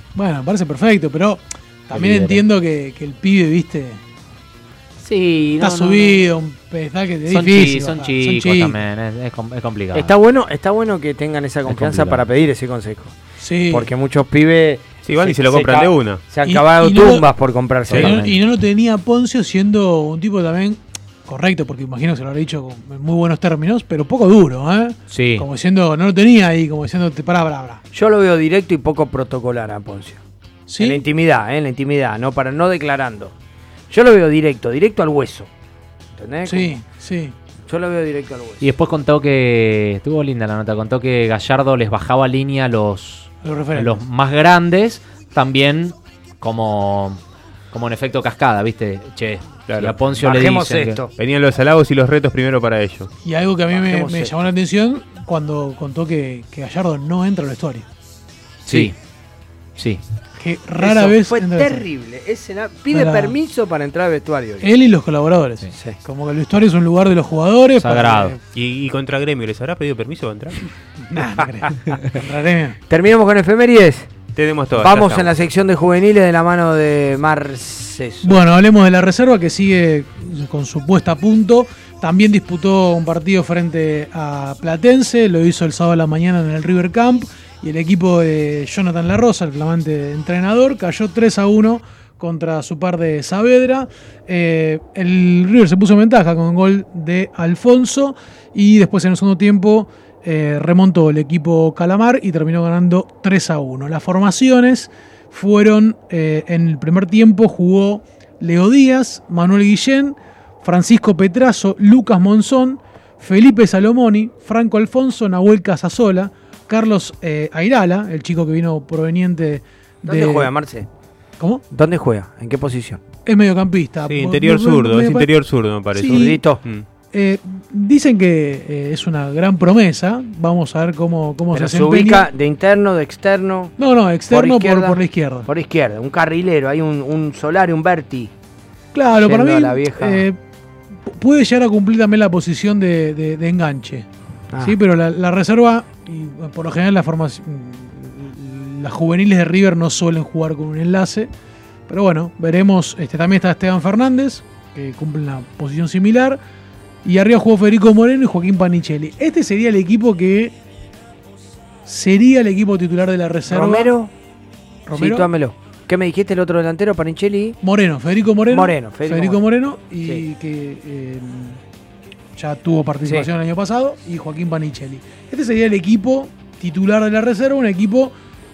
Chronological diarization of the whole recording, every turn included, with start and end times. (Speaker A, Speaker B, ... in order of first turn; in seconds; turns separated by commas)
Speaker A: 0.1-4.0, Speaker B: 1.9-2.4, Speaker B: 5.0-6.3, Speaker A: 5.6-8.8, Speaker B: 7.3-10.2, Speaker C: 9.9-13.2, Speaker B: 11.7-12.2, Speaker A: 13.4-13.9, Speaker C: 13.7-18.2, Speaker D: 15.1-16.3, Speaker A: 16.4-17.3, Speaker B: 17.9-18.4, Speaker A: 18.0-27.8, Speaker B: 25.1-25.5, Speaker C: 27.9-30.2, Speaker A: 30.7-31.0, Speaker C: 30.8-33.3, Speaker C: 33.9-35.5, Speaker C: 36.1-36.8, Speaker A: 36.5-37.4, Speaker C: 37.7-38.6, Speaker B: 38.6-47.2, Speaker A: 43.4-44.0, Speaker B: 47.7-51.0, Speaker D: 49.7-50.0, Speaker C: 50.2-51.1, Speaker D: 51.2-53.1, Speaker A: 53.2-57.9, Speaker C: 53.7-54.4, Speaker B: 58.7-59.0, Speaker A: 60.4-61.9, Speaker C: 60.8-64.7, Speaker A: 62.9-63.4, Speaker A: 64.6-68.4, Speaker C: 65.8-66.0, Speaker B: 67.8-68.3, Speaker D: 68.5-70.6, Speaker A: 71.1-72.8, Speaker C: 72.9-74.1, Speaker D: 74.3-75.3, Speaker C: 74.8-78.3, Speaker A: 78.2-120.5, Speaker C: 120.0-120.9, Speaker C: 121.7-123.0, Speaker A: 123.2-125.3, Speaker D: 124.0-126.9, Speaker C: 126.0-126.6, Speaker A: 126.0-126.4, Speaker A: 127.1-132.3, Speaker C: 131.5-133.8, Speaker A: 133.8-135.5, Speaker C: 134.3-138.3, Speaker A: 138.9-140.4, Speaker C: 139.2-140.2, Speaker A: 141.1-144.1, Speaker C: 144.5-144.8, Speaker A: 144.6-151.3, Speaker A: 151.9-156.4, Speaker A: 157.0-160.5, Speaker A: 161.9-163.9, Speaker C: 163.5-164.1, Speaker A: 164.9-165.3, Speaker C: 164.9-167.6, Speaker A: 167.6-171.6, Speaker C: 168.5-169.4, Speaker A: 172.4-178.1